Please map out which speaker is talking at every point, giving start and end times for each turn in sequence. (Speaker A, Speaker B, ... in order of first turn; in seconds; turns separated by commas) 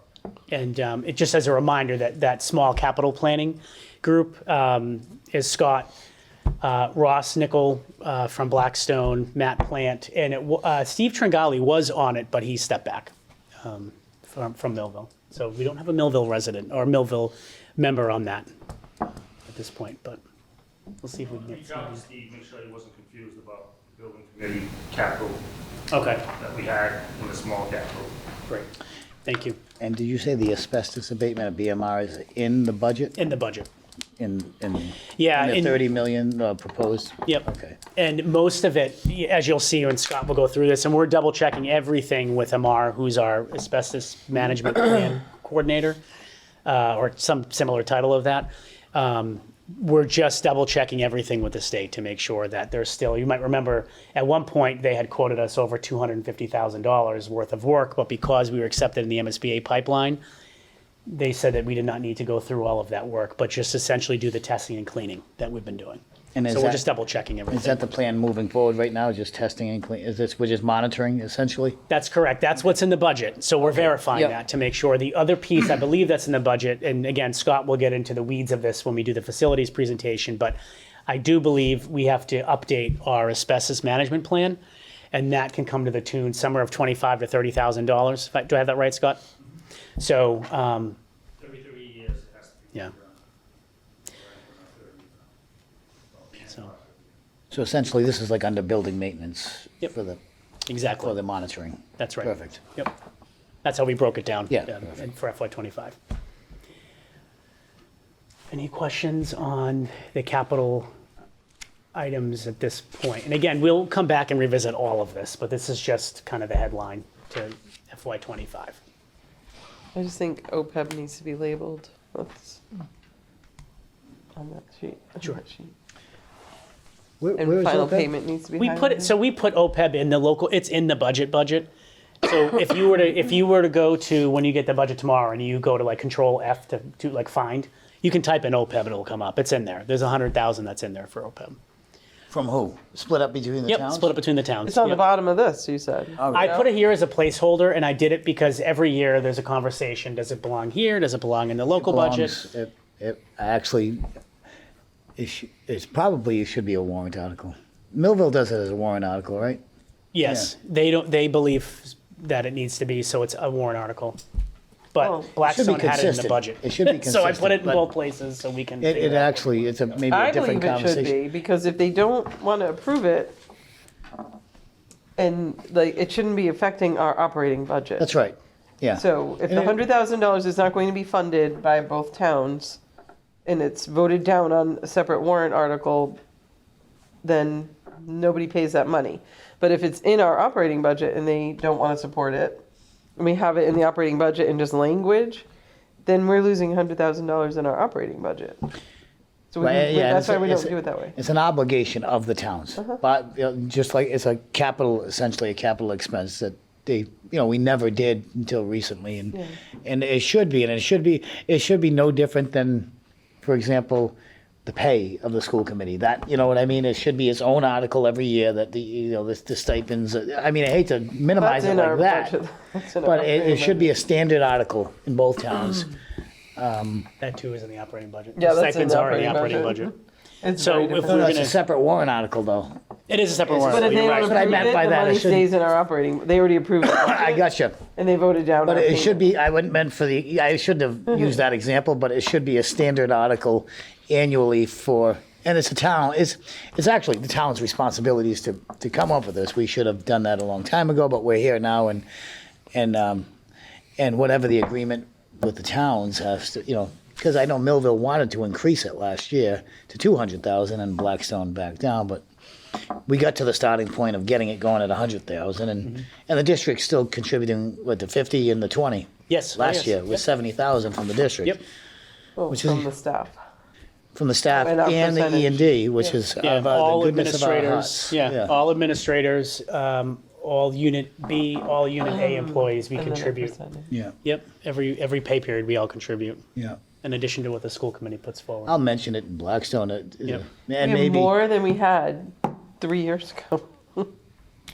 Speaker A: 0.5-5.9, Speaker A: 6.6-18.5, Speaker A: 19.5-20.2, Speaker A: 21.0-22.0, Speaker B: 21.4-25.4, Speaker A: 25.9-26.2, Speaker B: 26.4-28.2, Speaker A: 29.2-29.6, Speaker C: 29.8-33.2, Speaker A: 33.2-33.7, Speaker C: 34.2-37.8, Speaker A: 35.1-35.8, Speaker A: 37.3-46.0, Speaker A: 46.6-60.2, Speaker A: 61.1-67.9, Speaker C: 66.3-66.8, Speaker C: 67.5-71.8, Speaker A: 71.9-80.6, Speaker A: 81.1-84.6, Speaker A: 85.1-89.2, Speaker A: 90.0-91.0, Speaker B: 91.4-93.2, Speaker B: 94.1-95.3, Speaker B: 96.1-97.0, Speaker C: 97.5-100.2, Speaker A: 100.7-101.2, Speaker C: 101.0-102.6, Speaker A: 102.0-102.9, Speaker A: 103.6-106.0, Speaker C: 104.5-104.9, Speaker A: 108.5-110.9, Speaker A: 112.0-118.8, Speaker D: 119.9-122.6, Speaker D: 124.4-125.7, Speaker C: 127.2-128.1, Speaker D: 127.4-129.2, Speaker A: 128.6-131.7, Speaker A: 132.2-141.6, Speaker C: 142.3-144.1, Speaker A: 143.7-145.0, Speaker D: 144.7-146.7, Speaker C: 146.2-146.6, Speaker A: 146.3-152.5, Speaker C: 151.8-154.0, Speaker C: 155.2-159.6, Speaker A: 160.1-164.2, Speaker C: 160.2-160.5, Speaker A: 164.9-169.7, Speaker D: 165.0-165.3, Speaker C: 165.4-167.8, Speaker C: 168.8-171.2, Speaker D: 170.1-173.4, Speaker D: 175.2-178.1, Speaker C: 178.0-179.8, Speaker D: 178.9-182.8, Speaker D: 183.4-186.2, Speaker D: 187.2-192.6, Speaker D: 193.2-195.5, Speaker D: 196.1-198.6, Speaker D: 199.5-201.2, Speaker C: 199.6-212.9, Speaker C: 213.4-222.3, Speaker D: 221.4-223.9, Speaker C: 223.0-226.0, Speaker C: 226.6-227.1, Speaker A: 227.2-229.9, Speaker D: 228.4-231.3, Speaker A: 230.5-231.6, Speaker C: 231.0-232.8, Speaker A: 233.1-234.7, Speaker C: 233.5-235.5, Speaker D: 233.6-237.4, Speaker C: 236.8-237.8, Speaker D: 237.9-239.3, Speaker C: 238.6-252.1, Speaker C: 252.7-253.3, Speaker C: 254.0-262.2, Speaker C: 263.1-271.6, Speaker A: 269.3-270.0, Speaker D: 272.4-273.4, Speaker C: 272.5-272.9, Speaker C: 274.1-278.5, Speaker D: 274.5-276.1, Speaker A: 276.4-283.5, Speaker D: 282.1-283.9, Speaker A: 284.2-286.4, Speaker A: 287.0-288.8, Speaker C: 288.7-291.4, Speaker D: 290.8-294.1